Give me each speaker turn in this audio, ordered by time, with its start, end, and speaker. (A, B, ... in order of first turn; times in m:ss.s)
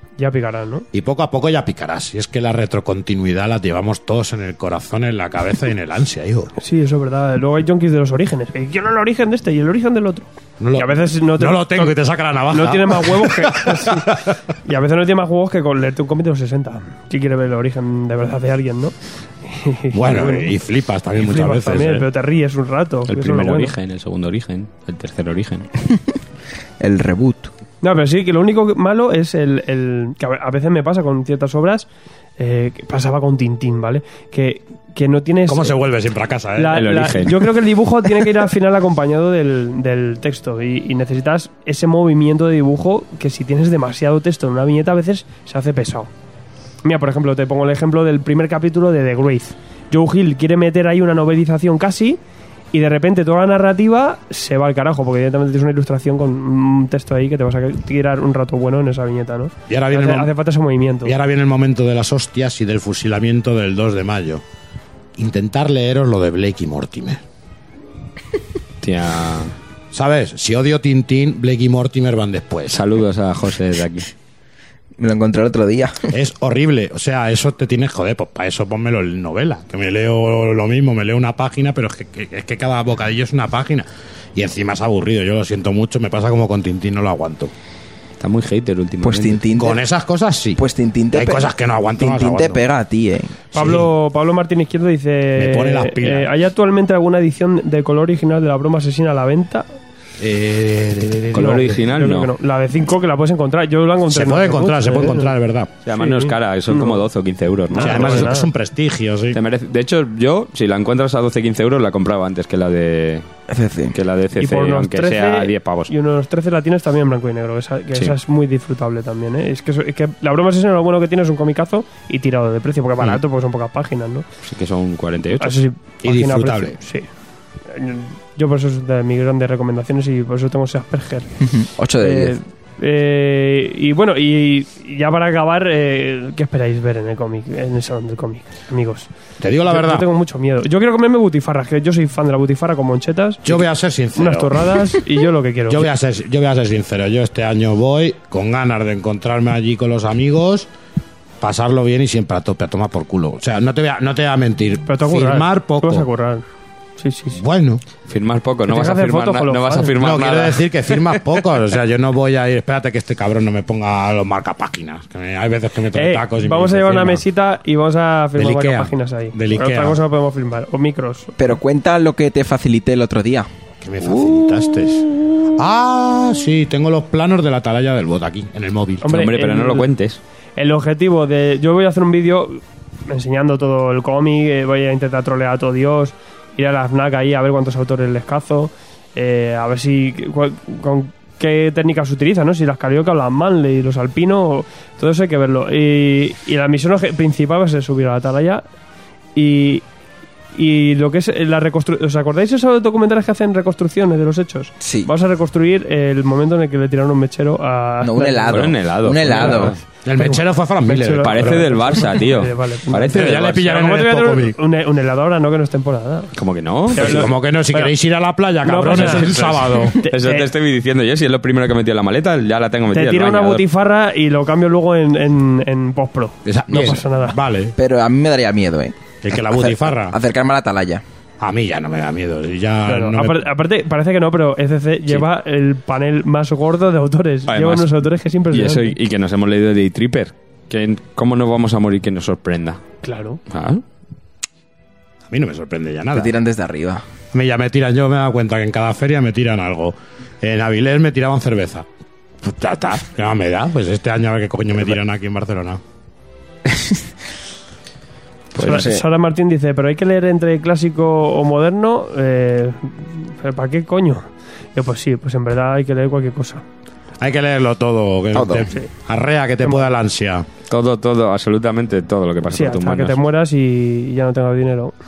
0:00.2-0:00.8 A
0:00.9-0:06.5 B
0:06.6-0:12.0 A
0:10.6-0:14.2 B
0:12.5-0:20.5 A
0:19.9-0:22.1 B
0:21.2-0:23.7 A
0:23.1-0:25.7 C
0:26.8-0:27.5 D
0:27.8-0:31.9 A
0:32.4-0:35.8 A
0:35.5-0:36.9 B
0:36.6-0:46.1 A
0:36.7-0:37.5 C
0:46.8-0:52.2 A
0:52.7-1:01.1 A
0:59.7-1:00.3 B
1:01.0-1:04.4 B
1:05.2-1:07.2 B
1:08.8-1:09.5 C
1:09.9-1:12.8 B
1:12.7-1:14.1 C
1:15.0-1:16.1 D
1:16.1-1:27.5 B
1:28.2-1:29.4 C
1:29.0-1:29.8 D
1:29.6-1:32.6 B
1:30.6-1:33.4 D
1:33.5-1:33.9 B
1:33.5-1:39.6 A
1:35.4-1:36.3 B
1:40.2-1:41.8 B
1:41.3-1:42.3 C
1:41.3-1:45.3 A
1:44.1-1:45.7 B
1:45.8-1:48.3 C
1:46.0-1:47.0 A
1:47.7-1:48.5 A
1:47.8-1:49.4 B
1:49.3-1:53.2 C
1:53.5-1:53.9 D
1:53.9-1:55.9 C
1:54.4-2:04.2 A
2:04.4-2:05.6 C
2:05.4-2:07.1 A
2:06.0-2:06.8 B
2:07.7-2:11.3 A
2:11.4-2:12.4 D
2:12.0-2:19.1 A
2:19.4-2:20.0 B
2:19.7-2:23.6 A
2:23.4-2:24.7 B
2:24.2-2:25.8 A
2:25.7-2:30.7 B
2:31.4-2:36.1 B
2:34.9-2:36.4 A
2:37.0-2:37.4 A
2:37.3-2:37.8 B
2:38.1-2:40.6 C
2:38.7-2:39.9 A
2:40.0-2:47.2 B
2:45.9-2:51.3 A
2:48.4-2:50.0 B
2:51.4-2:53.5 D
2:53.8-2:59.0 B
2:59.0-2:59.9 A
2:59.0-3:00.2 C
3:00.6-3:18.6 A
3:19.4-3:19.8 A
3:20.5-3:28.6 A
3:24.8-3:25.1 D
3:28.0-3:29.7 D
3:28.5-3:29.8 C
3:29.4-3:29.6 A
3:30.0-3:32.0 B
3:30.2-3:36.3 A
3:31.2-3:33.6 C
3:33.1-3:34.6 B
3:36.3-3:37.3 C
3:36.9-3:37.9 A
3:37.0-3:40.0 B
3:38.6-3:40.5 A
3:38.8-3:43.6 C
3:42.9-3:47.4 A
3:46.4-3:47.7 B
3:47.7-3:49.0 D
3:49.2-3:50.1 B
3:49.5-3:51.0 D
3:51.4-3:53.4 B
3:52.9-3:59.0 A
3:57.5-4:02.8 C
4:03.0-4:03.4 A
4:03.5-4:03.8 C
4:05.3-4:06.3 B
4:06.1-4:07.0 D
4:07.3-4:11.8 B
4:12.4-4:15.8 B
4:18.6-4:19.0 D
4:18.6-4:26.6 A
4:27.2-4:30.4 B
4:28.3-4:28.7 D
4:29.6-4:29.9 A
4:30.7-4:33.2 C
4:32.5-4:34.9 A